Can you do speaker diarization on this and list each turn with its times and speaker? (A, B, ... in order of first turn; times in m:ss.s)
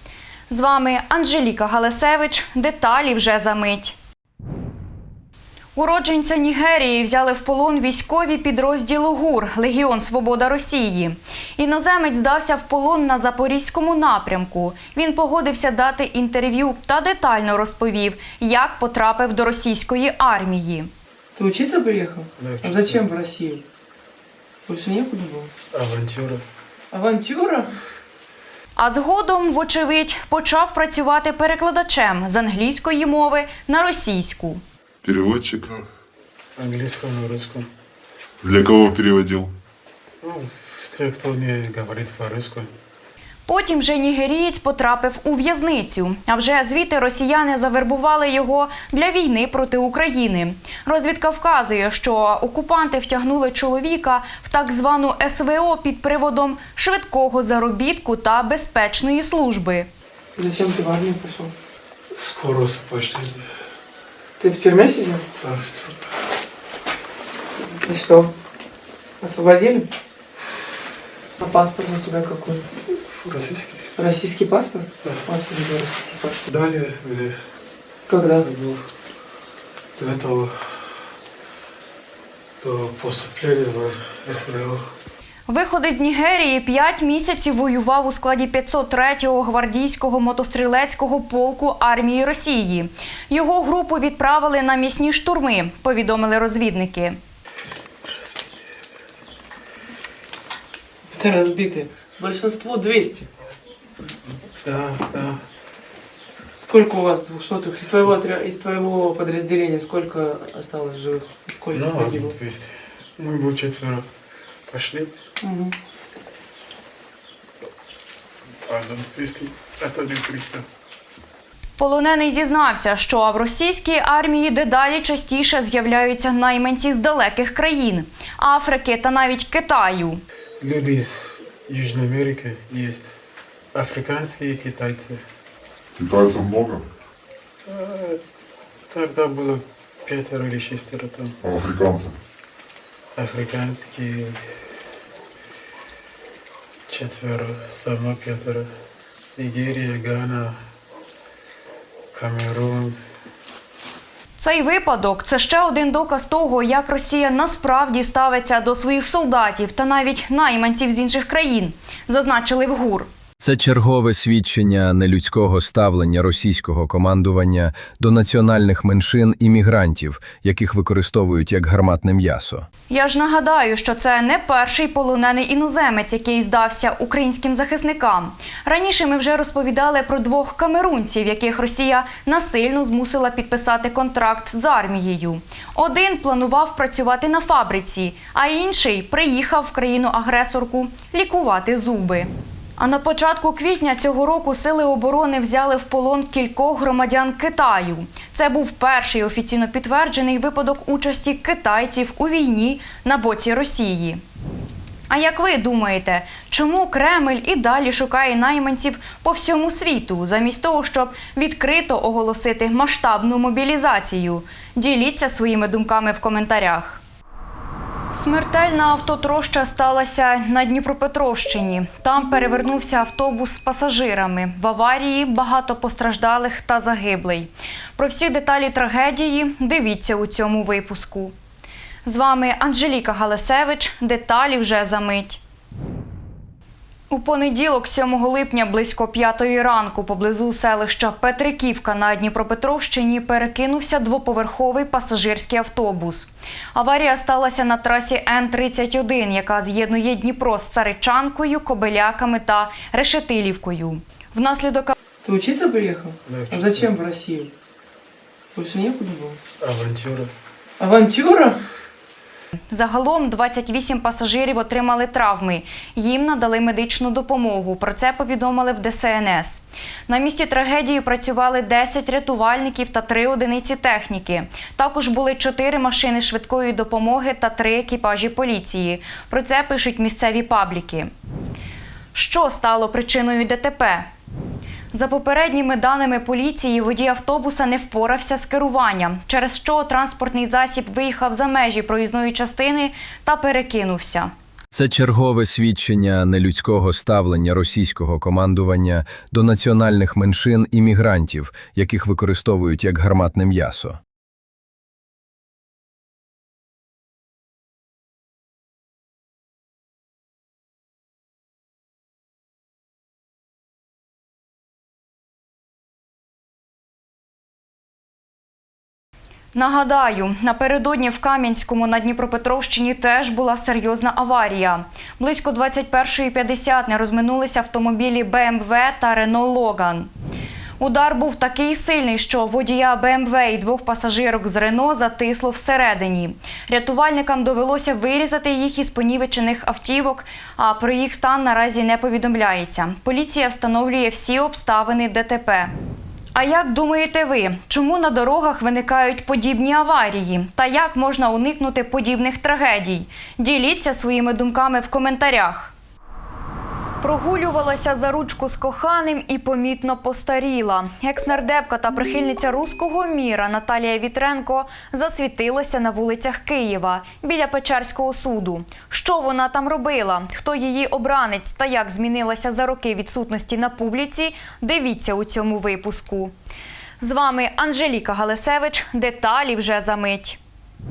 0:00.5-0:04.0 A
0:05.8-0:20.9 A
0:21.4-0:23.6 B
0:22.4-0:23.1 C
0:24.7-0:25.5 B
0:25.7-0:26.4 C
0:26.9-0:27.7 B
0:28.8-0:34.6 A
0:35.0-0:35.8 D
0:36.6-0:37.7 C
0:38.4-0:39.5 D
0:40.2-0:42.7 C
0:43.5-0:59.9 A
1:00.4-1:01.5 B
1:02.1-1:03.4 C
1:04.4-1:05.2 B
1:05.4-1:06.1 C
1:07.6-1:08.3 B
1:09.2-1:09.9 B
1:11.4-1:12.7 B
1:13.1-1:13.9 C
1:14.0-1:16.4 B
1:16.4-1:17.4 C
1:18.1-1:18.4 B
1:18.4-1:18.8 C
1:20.0-1:20.8 C
1:22.6-1:24.9 C
1:25.5-1:37.2 A
1:38.1-1:38.7 C
1:41.1-1:43.3 B
1:44.6-1:45.4 C
1:46.6-1:52.4 B
1:51.7-1:54.0 C
1:54.7-1:55.1 C
1:55.4-1:55.7 B
1:58.6-2:00.6 C
2:01.8-2:10.2 A
2:10.6-2:13.1 C
2:13.7-2:15.2 C
2:16.0-2:16.8 D
2:17.7-2:18.2 C
2:18.9-2:21.3 C
2:21.4-2:22.2 D
2:23.1-2:24.4 C
2:26.9-2:28.7 C
2:29.4-2:30.6 C
2:32.1-2:33.0 C
2:34.4-2:43.1 A
2:43.4-2:52.6 E
2:52.9-3:24.2 A
3:25.1-3:37.0 A
3:38.1-3:51.3 A
3:52.0-3:55.4 A
3:57.1-4:15.0 A
4:15.2-4:17.5 B
4:16.2-4:17.0 C
4:18.5-4:19.4 B
4:19.6-4:20.3 C
4:20.8-4:21.6 B
4:22.7-4:41.1 A
4:42.1-4:44.1 A
4:44.9-4:54.3 A
4:54.7-5:04.0 E
5:19.5-5:30.1 A
5:30.8-5:45.7 A
5:46.3-5:55.7 A
5:57.0-6:16.3 A
6:17.0-6:20.4 A